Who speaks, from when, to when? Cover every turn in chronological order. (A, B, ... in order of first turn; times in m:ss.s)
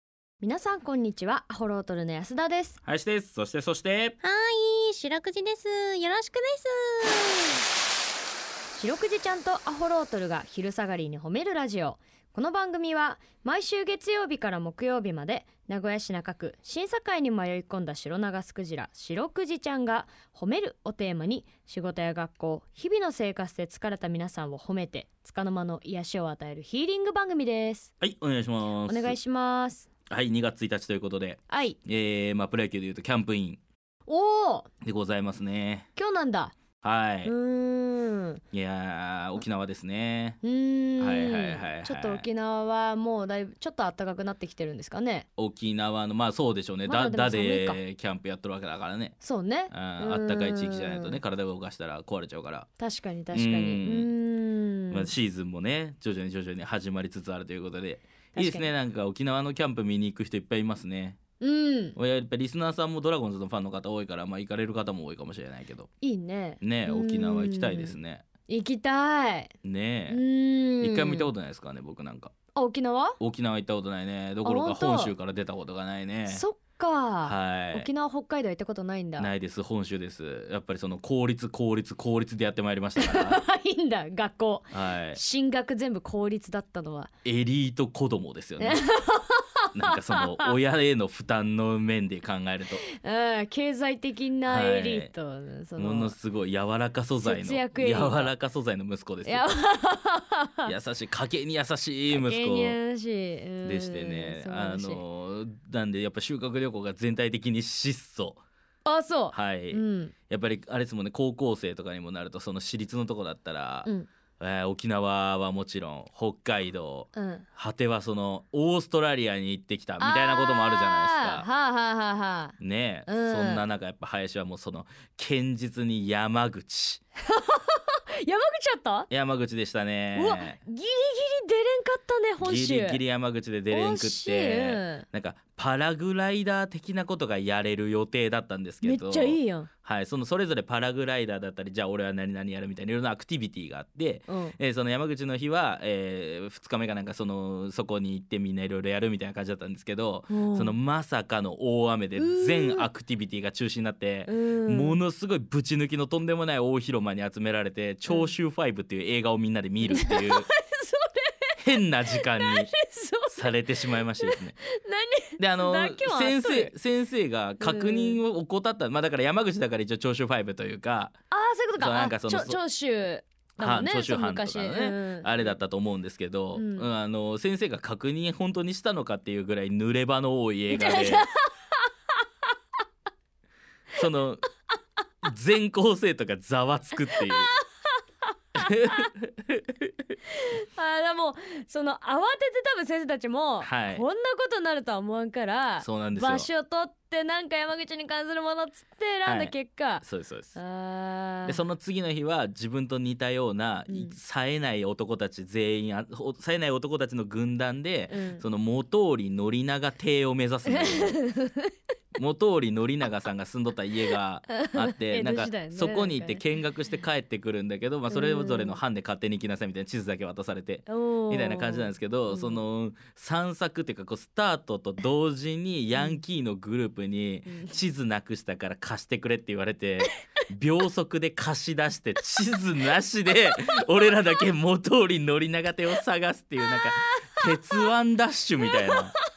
0:00.4-0:02.8 A
0:02.8-0:04.2 B
0:04.2-0:07.6 C
0:08.7-0:27.9 A
0:28.0-0:29.2 B
0:28.8-0:29.9 A
0:30.1-0:33.6 B
0:31.5-0:31.8 A
0:34.0-0:34.7 A
0:34.8-0:35.9 B
0:36.0-0:36.5 A
0:36.8-0:37.3 B
0:37.2-0:38.4 A
0:38.5-0:40.4 B
0:40.4-0:45.2 A
0:41.0-0:42.2 B
0:45.4-0:49.2 B
0:46.8-0:47.8 A
0:49.2-0:51.2 A
0:49.7-0:52.7 B
0:52.8-0:55.1 A
0:53.3-0:54.1 B
0:54.9-1:01.2 B
0:58.3-0:58.7 A
1:01.4-1:02.0 A
1:02.0-1:05.9 B
1:06.0-1:08.0 A
1:06.6-1:08.2 B
1:08.5-1:09.5 A
1:09.6-1:10.2 B
1:10.1-1:11.3 A
1:10.8-1:12.3 B
1:12.5-1:13.2 A
1:13.2-1:16.4 B
1:14.4-1:15.1 A
1:16.2-1:19.3 A
1:17.2-1:17.9 B
1:19.2-1:23.4 B
1:23.0-1:27.1 A
1:24.7-1:25.2 B
1:27.2-1:28.8 B
1:28.6-1:30.6 A
1:29.7-1:32.8 B
1:32.9-1:36.2 A
1:34.4-1:35.1 B
1:35.8-1:39.5 B
1:37.2-1:38.3 A
1:39.2-1:40.7 A
1:40.6-1:42.8 B
1:42.1-1:45.0 A
1:43.6-1:48.4 B
1:48.8-1:50.1 A
1:49.3-2:01.5 B
1:57.1-1:57.4 A
2:00.0-2:03.6 A
2:02.6-2:07.0 B
2:07.3-2:09.1 A
2:09.1-2:10.6 B
2:10.1-2:13.0 A
2:12.4-2:40.5 B
2:13.7-2:15.0 A
2:18.8-2:19.7 A
2:24.3-2:24.6 A
2:30.3-2:30.7 A
2:32.1-2:32.9 A
2:34.2-2:35.0 A
2:39.9-2:46.7 A
2:41.6-2:42.7 B
2:43.3-2:44.6 B
2:45.4-2:51.1 B
2:47.6-2:48.2 A
2:51.3-2:55.6 A
2:51.8-2:52.6 B
2:53.6-3:01.3 B
2:56.5-2:56.9 A
3:00.7-3:01.5 A
3:03.9-3:04.4 B
3:05.2-3:07.5 B
3:07.1-3:07.6 A
3:08.5-3:09.1 A
3:08.6-3:09.9 B
3:10.4-3:21.6 A
3:13.6-3:14.0 B
3:15.8-3:16.5 B
3:19.2-3:20.6 B
3:21.4-3:31.2 B
3:23.9-3:24.2 A
3:28.1-3:28.4 A
3:30.7-3:31.7 A
3:32.1-3:59.1 B
3:34.5-3:36.4 A
3:38.1-3:38.8 A
3:40.9-3:42.6 A
3:45.9-3:46.2 A
3:47.5-3:47.8 A
3:56.6-3:57.8 A
3:58.6-3:59.2 A